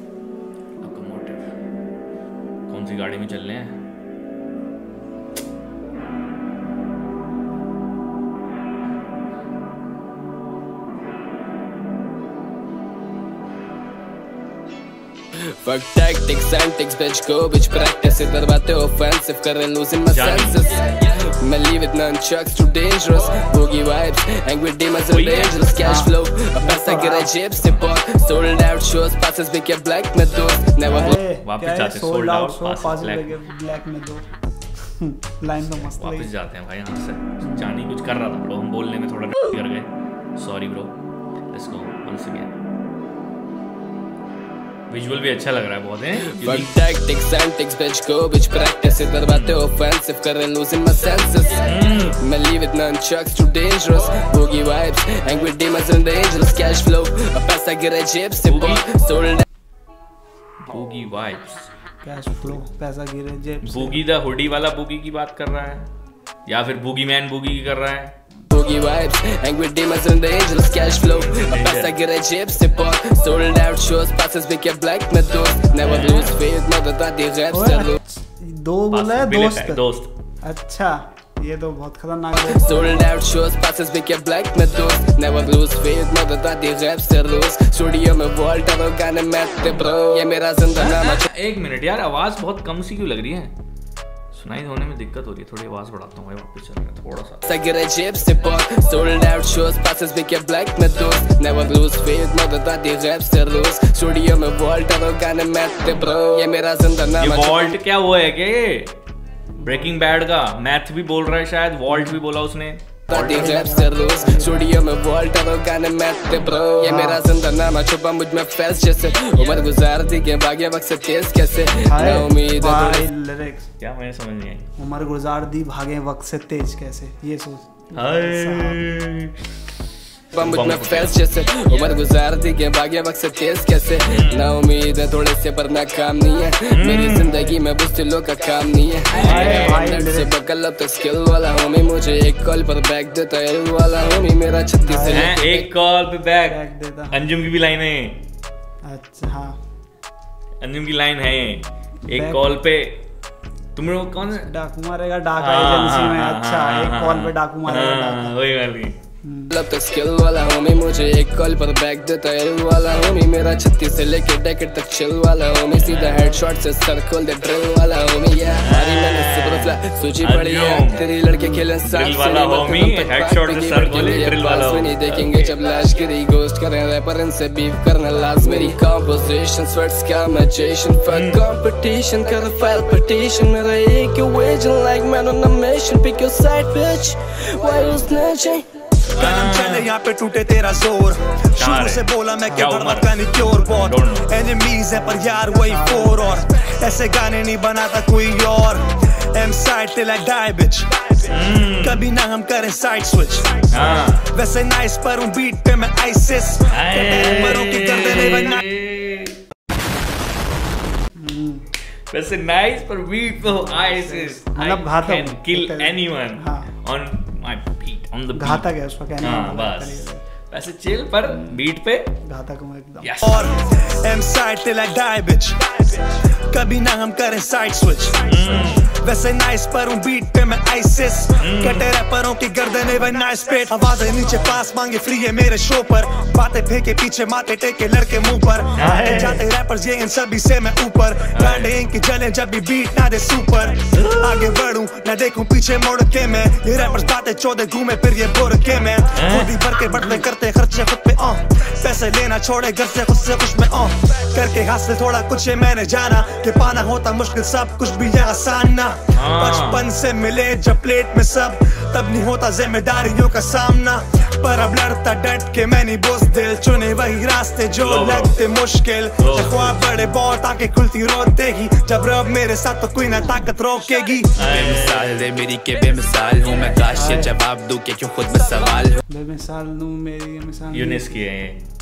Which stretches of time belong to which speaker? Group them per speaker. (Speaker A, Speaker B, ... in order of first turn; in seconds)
Speaker A: 0.8-1.5, 2.7-3.8, 20.1-20.6, 25.1-25.6, 27.6-27.9, 31.3-33.3, 35.6-40.9, 41.5-42.5, 44.9-46.8, 49.3-49.6, 51.6-52.2, 58.4-58.9, 60.6-61.7, 63.6-65.9, 66.5-68.1, 71.0-72.0, 75.8-76.4, 78.9-80.1, 90.8-93.5, 94.3-97.5, 107.2-109.0, 109.6-113.5, 123.8-124.7, 128.0-129.5, 130.3-131.2, 134.1-134.6, 136.7-137.3, 139.1-139.8, 145.1-148.2, 150.6-153.0, 153.8-154.5, 155.4-159.0, 165.8-166.3, 168.6-171.1, 171.8-175.5, 181.1-181.4, 189.2-189.9, 191.6-193.2, 193.8-194.3, 201.3-202.1, 203.7-204.3, 206.7-209.4, 212.1-218.7, 219.2-222.1, 223.0-223.5, 228.3-228.9, 231.4-231.9, 238.8-239.4, 241.3-241.8, 243.9-244.5, 249.2-249.6, 259.1-259.9, 267.8-268.4, 269.2-269.8, 274.4-275.3, 280.7-281.6
Speaker B: 15.4-31.2, 46.2-59.5, 68.5-78.0, 82.5-91.3, 97.5-107.8, 113.1-123.1, 130.3-145.7, 159.5-188.7
Speaker C: 25.8-27.4, 30.8-34.2, 35.0-36.3, 37.4-37.7, 55.2-55.5, 62.0-64.0, 75.8-76.0, 77.5-79.8, 80.4-83.1, 109.6-110.0, 111.9-112.2, 113.2-114.7, 116.8-117.3, 121.9-123.7, 124.8-128.9, 137.2-137.6, 139.2-140.3, 144.8-145.3, 146.5-147.3, 148.8-149.6, 152.1-152.4, 154.3-158.4, 159.2-159.6, 171.3-171.6, 194.9-196.5, 211.2-211.7, 213.4-216.7, 218.3-220.2, 221.2-221.6, 222.3-223.2, 238.8-239.3, 276.9-277.3, 279.1-281.2
Speaker D: 189.2-208.7, 223.2-274.4
Speaker E: 274.4-279.0